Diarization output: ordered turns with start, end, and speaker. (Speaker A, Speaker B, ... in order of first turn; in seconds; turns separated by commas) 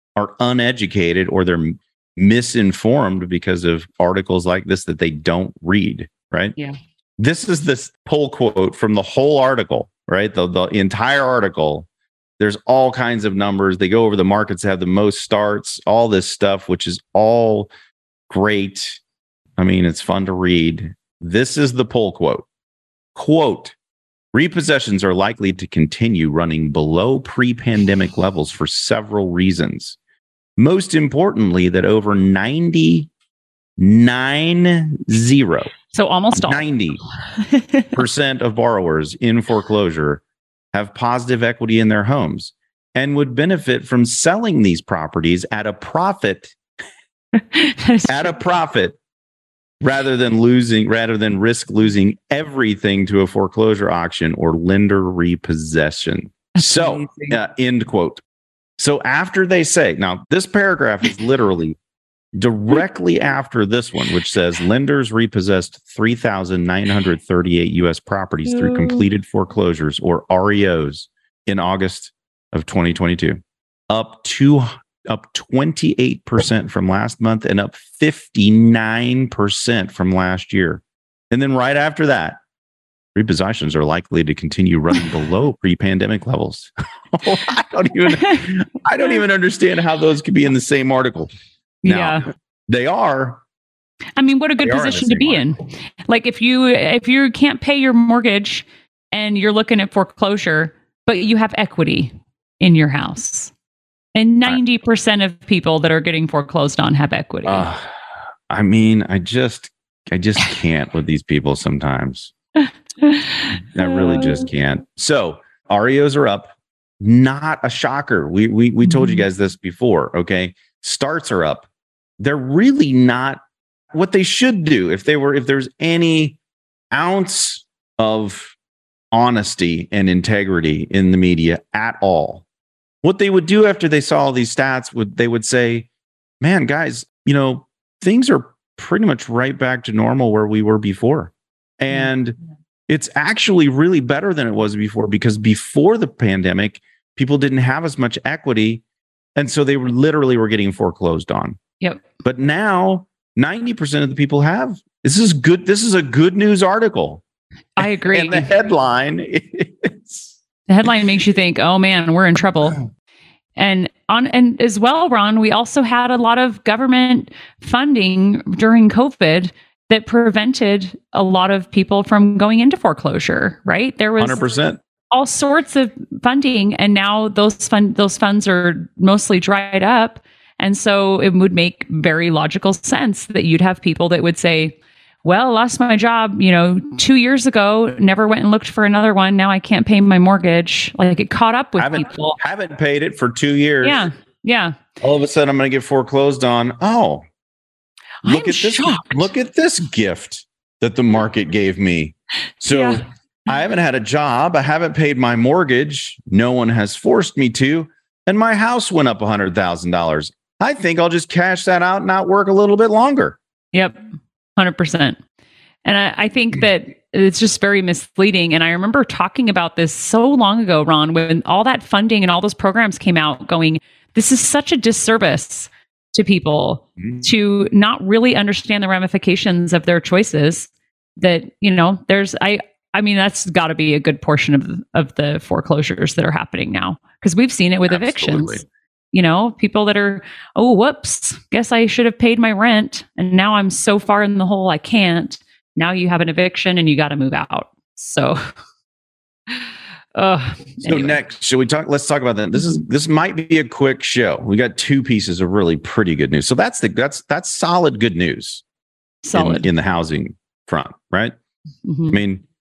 Speaker A: 0.1-6.5, Speaker A: 7.2-11.9, Speaker A: 12.4-17.7, Speaker A: 18.3-19.0, Speaker A: 19.6-22.4, Speaker A: 23.1-23.8, Speaker A: 24.3-30.0, Speaker A: 30.6-33.1, Speaker A: 33.8-35.7, Speaker B: 35.9-36.8, Speaker A: 36.3-37.0, Speaker B: 37.3-38.0, Speaker A: 37.9-46.5, Speaker B: 47.3-48.4, Speaker A: 48.1-49.0, Speaker A: 49.8-58.2, Speaker B: 56.6-57.4, Speaker A: 58.8-61.8, Speaker A: 62.3-82.4, Speaker B: 68.5-69.0, Speaker A: 83.1-91.3, Speaker B: 88.1-88.4, Speaker B: 91.8-92.2, Speaker A: 91.8-93.4, Speaker B: 94.2-103.5, Speaker A: 94.6-95.5, Speaker B: 104.1-107.7, Speaker A: 107.4-108.0, Speaker A: 108.5-112.3, Speaker B: 112.6-114.5, Speaker A: 113.7-121.7, Speaker B: 118.8-119.3, Speaker A: 122.2-123.4, Speaker A: 123.9-126.4, Speaker A: 126.9-128.6, Speaker A: 129.1-132.4, Speaker A: 133.0-135.9, Speaker A: 136.4-142.3, Speaker A: 142.9-148.8, Speaker A: 149.3-151.6, Speaker A: 152.2-157.2, Speaker B: 157.8-158.5, Speaker A: 157.8-160.3, Speaker B: 160.7-162.8, Speaker B: 163.6-174.5, Speaker A: 174.2-174.8, Speaker B: 175.1-192.4, Speaker A: 191.8-194.1, Speaker B: 193.8-194.7, Speaker A: 195.0-197.2, Speaker B: 198.2-199.3, Speaker A: 198.2-213.4, Speaker B: 202.7-203.0, Speaker B: 213.7-214.0, Speaker B: 214.6-215.2, Speaker B: 215.8-238.6, Speaker A: 237.9-238.6, Speaker B: 239.1-248.5, Speaker B: 249.5-251.2, Speaker A: 250.8-258.6, Speaker B: 259.2-259.7, Speaker A: 259.3-261.3, Speaker B: 261.8-262.2, Speaker A: 262.1-262.4